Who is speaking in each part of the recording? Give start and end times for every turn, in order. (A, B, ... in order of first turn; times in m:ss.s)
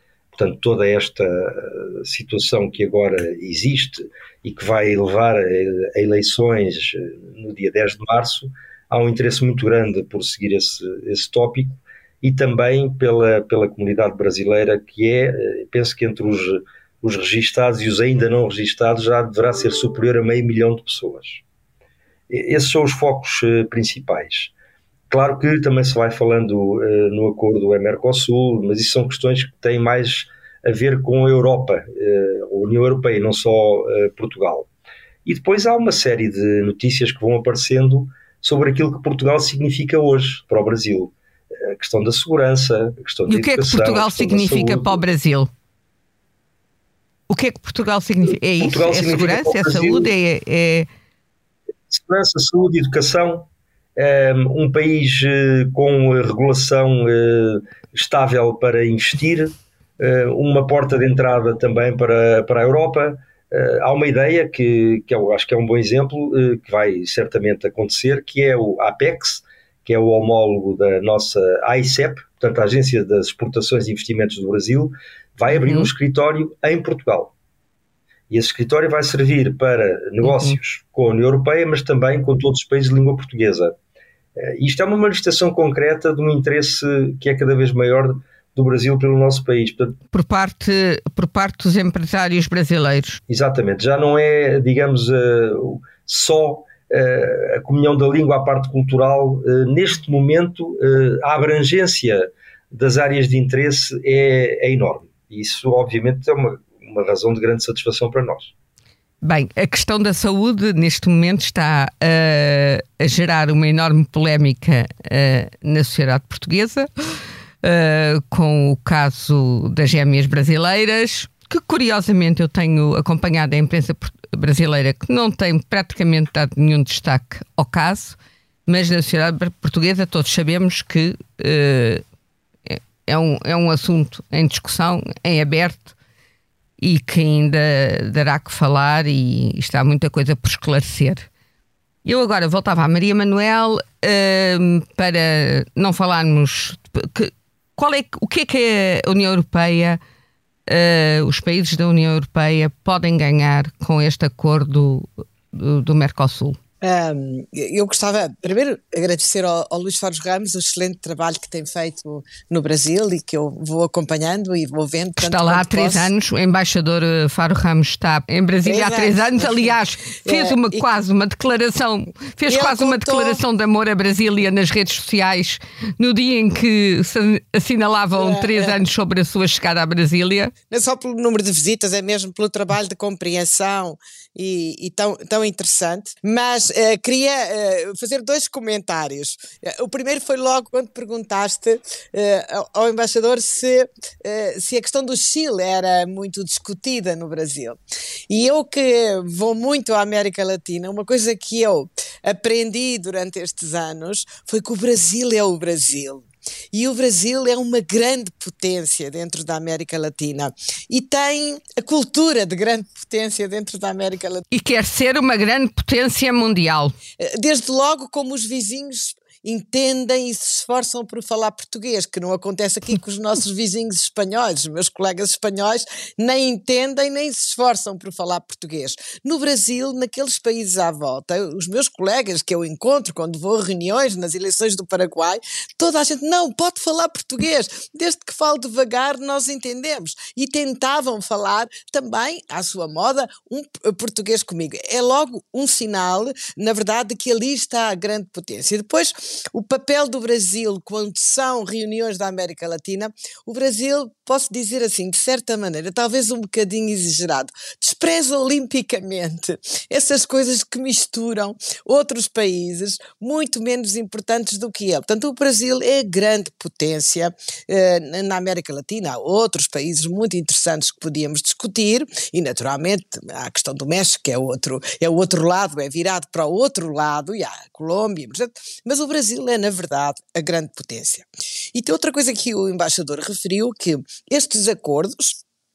0:00.3-0:21.4 A
0:22.3-0:24.5 A
0:25.1-0:34.7 A
0:35.2-0:45.0 A
0:43.3-0:45.5 B
0:47.3-0:50.9 B
0:48.6-0:50.1 A
0:51.9-1:17.3 A
1:15.5-1:15.9 B
1:18.3-1:23.8 A
1:20.2-1:20.6 B
1:24.4-1:30.0 A
1:30.1-1:33.2 B
1:33.3-1:48.5 A
1:49.2-1:56.9 B
1:57.6-2:12.0 B
2:12.7-2:15.9 B
2:16.8-2:21.3 B
2:22.0-2:30.0 B
2:30.7-2:36.6 B
2:36.8-2:46.1 C
2:45.2-3:00.5 B
2:48.6-2:50.8 C
2:52.5-2:53.4 C
2:58.2-2:58.8 C
3:00.7-3:34.4 C
3:34.5-3:37.0 B
3:37.2-4:45.4 C